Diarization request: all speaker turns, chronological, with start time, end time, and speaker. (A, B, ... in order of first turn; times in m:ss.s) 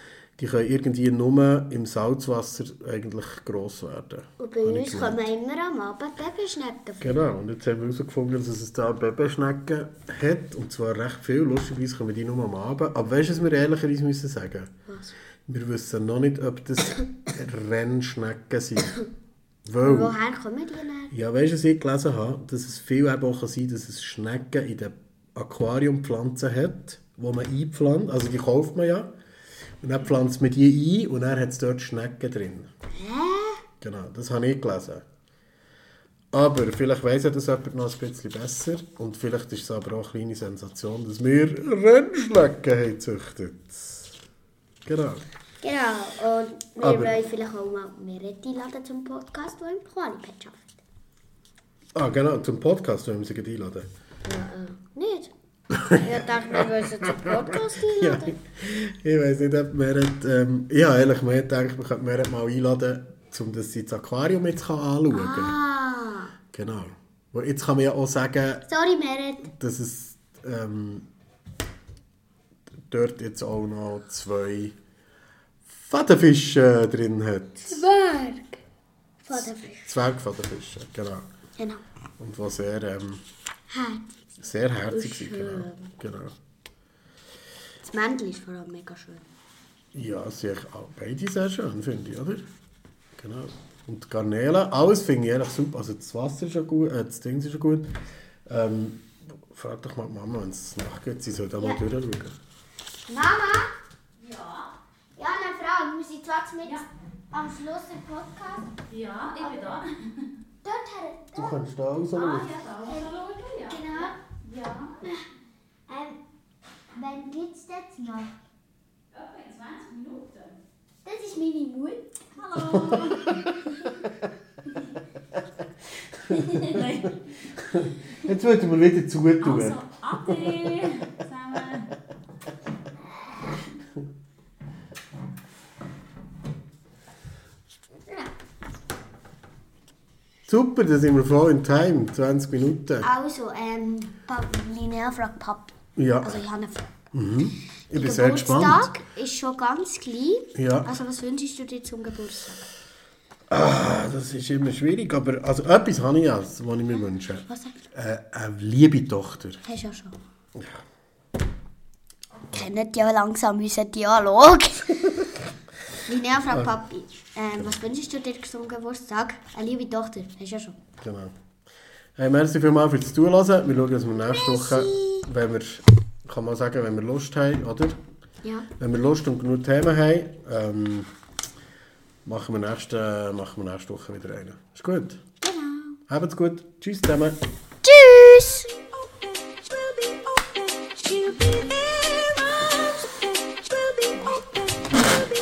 0:00.4-0:05.2 A
0:04.4-0:07.2 B
0:07.0-0:14.7 A
0:14.9-0:15.2 B
0:15.5-0:19.0 A
0:19.7-0:20.1 A
0:19.8-0:21.1 B
0:21.1-0:29.1 A
0:29.8-0:32.7 A
0:32.9-0:33.6 B
0:33.8-0:35.0 A
0:36.3-0:44.1 A
0:44.9-0:45.2 A
0:45.6-0:50.8 B
0:46.8-0:47.1 A
0:52.0-0:53.9 A
0:54.2-0:55.3 B
0:55.7-0:56.0 A
0:55.9-0:58.4 B
0:56.8-0:57.3 A
0:58.0-1:05.6 A
1:05.1-1:06.3 B
1:06.5-1:08.6 A
1:08.7-1:09.5 B
1:09.5-1:11.1 A
1:12.9-1:14.8 A
1:15.7-1:17.8 A
1:17.6-1:18.6 B
1:19.2-1:19.9 B
1:19.3-1:21.3 A
1:21.6-1:21.8 B
1:22.2-1:23.2 A
1:23.7-1:24.2 B
1:24.4-1:26.4 A
1:24.9-1:25.9 B
1:27.8-1:29.2 B
1:29.9-1:32.4 A
1:33.2-1:37.9 A
1:38.5-1:42.4 A
1:41.6-1:41.8 B
1:43.1-1:43.7 B
1:44.3-1:44.6 C
1:45.2-1:49.9 B
1:48.9-1:49.8 C
1:50.6-1:51.6 B
1:51.4-1:52.6 A
1:52.5-1:52.8 C
1:52.7-1:54.2 B
1:54.4-1:54.9 C
1:55.0-1:55.3 B
1:55.9-1:56.2 B
1:56.9-1:58.3 B
1:59.2-2:00.5 C
2:01.0-2:02.6 B
2:02.5-2:03.2 C
2:02.7-2:03.5 A
2:06.3-2:06.8 A
2:07.6-2:10.6 A
2:09.8-2:11.9 C
2:20.5-2:23.1 A
2:23.0-2:26.9 B
2:26.0-2:26.4 A
2:27.1-2:29.0 A
2:27.9-2:32.7 B
2:30.6-2:30.9 A
2:33.5-2:39.6 A
2:37.5-2:37.8 B
2:39.6-2:40.2 B
2:40.6-2:40.8 A
2:42.5-2:45.3 B
2:46.0-2:50.8 B
2:51.0-2:51.3 A
2:52.2-2:58.0 A
2:54.3-2:55.3 B
2:58.4-2:58.7 B
2:58.8-3:01.1 A
3:02.2-3:05.2 A
3:05.4-3:06.0 B
3:06.1-3:07.4 A
3:07.8-3:08.7 B
3:11.0-3:13.3 B
3:13.9-3:14.8 B